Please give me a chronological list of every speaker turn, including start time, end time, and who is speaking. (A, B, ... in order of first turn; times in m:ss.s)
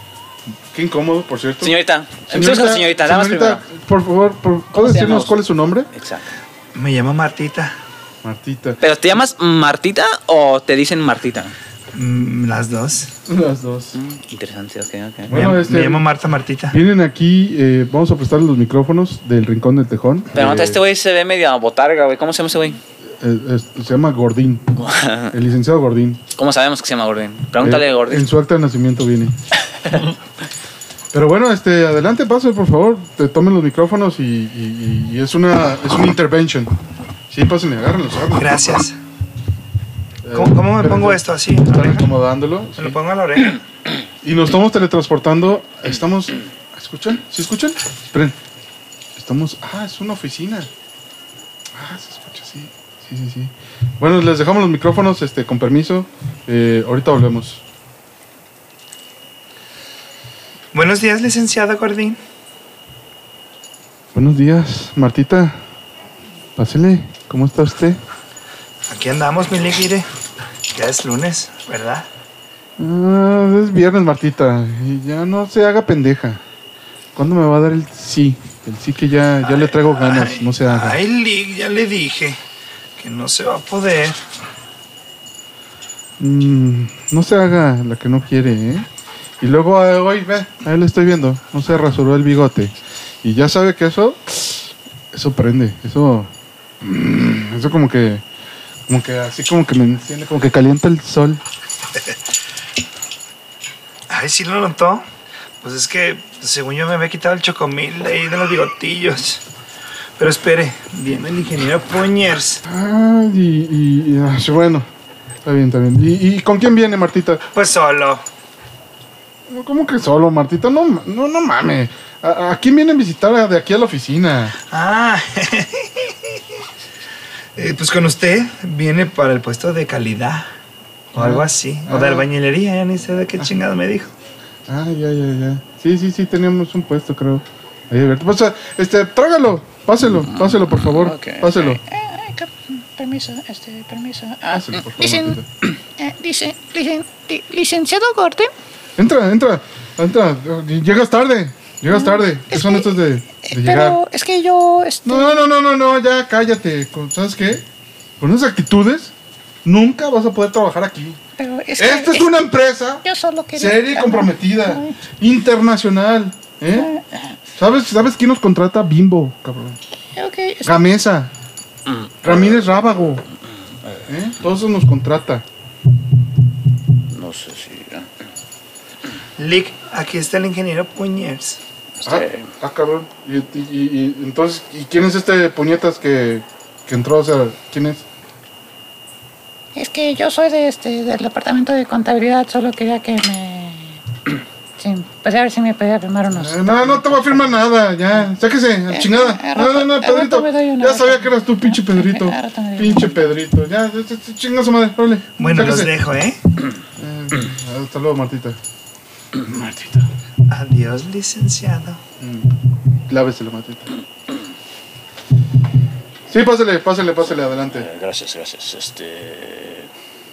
0:00.7-0:01.7 A
0:01.6-0:03.6 B
0:02.3-0:05.9 A
0:04.7-0:05.4 B
0:05.9-0:06.3 B
0:06.7-0:07.7 C
0:08.2-0:08.8 A
0:08.8-0:11.5 B
0:11.9-0:13.1 C
0:13.3-0:13.9 A
0:13.9-0:15.4 B
0:15.3-0:16.0 A
0:15.3-0:16.8 C
0:16.7-0:20.8 A
0:20.3-0:22.8 B
0:23.2-0:24.8 A
0:24.8-0:25.3 B
0:25.3-0:26.2 A
0:26.3-0:28.2 B
0:27.6-0:29.3 A
0:31.1-0:36.7 A
0:37.3-0:38.6 A
0:38.3-0:39.0 C
0:40.2-0:43.0 A
0:40.3-0:42.1 C
0:42.8-0:43.6 C
0:44.2-0:48.4 A
0:49.1-0:50.7 A
0:51.7-0:57.6 A
1:00.7-1:02.2 C
1:04.1-1:05.6 A
1:06.6-1:08.0 A
1:08.9-1:10.0 C
1:10.7-1:12.0 C
1:12.8-1:16.4 A
1:17.1-1:21.0 A
1:19.4-1:22.4 C
1:23.0-1:24.2 C
1:26.2-1:28.9 A
1:29.4-1:36.3 A
1:36.8-1:38.2 A
1:38.9-1:41.4 A
1:44.1-1:45.0 C
1:45.6-1:49.4 C
1:50.2-1:52.6 C
1:52.6-1:54.8 A
1:55.4-1:57.4 A
1:57.5-1:58.2 C
1:59.5-2:04.6 A
2:04.7-2:06.4 C
2:07.6-2:10.5 C
2:11.1-2:14.1 C
2:11.2-2:12.3 A
2:14.7-2:21.8 A
2:20.2-2:22.4 B
2:23.0-2:24.4 D
2:24.4-2:24.8 B
2:24.4-2:25.4 A
2:25.0-2:25.4 D
2:26.0-2:28.5 D
2:29.0-2:34.0 A
2:32.0-2:32.9 D
2:33.4-2:35.4 D
2:35.0-2:37.6 A
2:38.2-2:39.1 A
2:39.6-2:41.2 A
2:41.4-2:42.3 D
2:41.8-2:46.9 A
2:43.0-2:44.9 D
2:47.6-2:49.8 A
2:50.2-2:50.7 D
2:50.6-2:51.3 A
2:51.8-2:52.8 B
2:52.2-2:53.2 A
2:54.1-2:55.4 A
2:57.1-2:58.1 B
2:59.4-3:01.6 C
3:02.0-3:02.5 B
3:02.0-3:08.0 A
3:09.7-3:14.0 D
3:14.8-3:16.6 D
3:16.3-3:25.9 A
3:16.8-3:17.1 B
3:18.9-3:23.0 D
3:25.4-3:26.4 C
3:27.0-3:28.6 A
3:29.4-3:29.8 A
3:30.5-3:32.0 C
3:32.2-3:32.5 A
3:33.1-3:33.9 A
3:36.3-3:37.9 A
3:37.7-3:39.9 B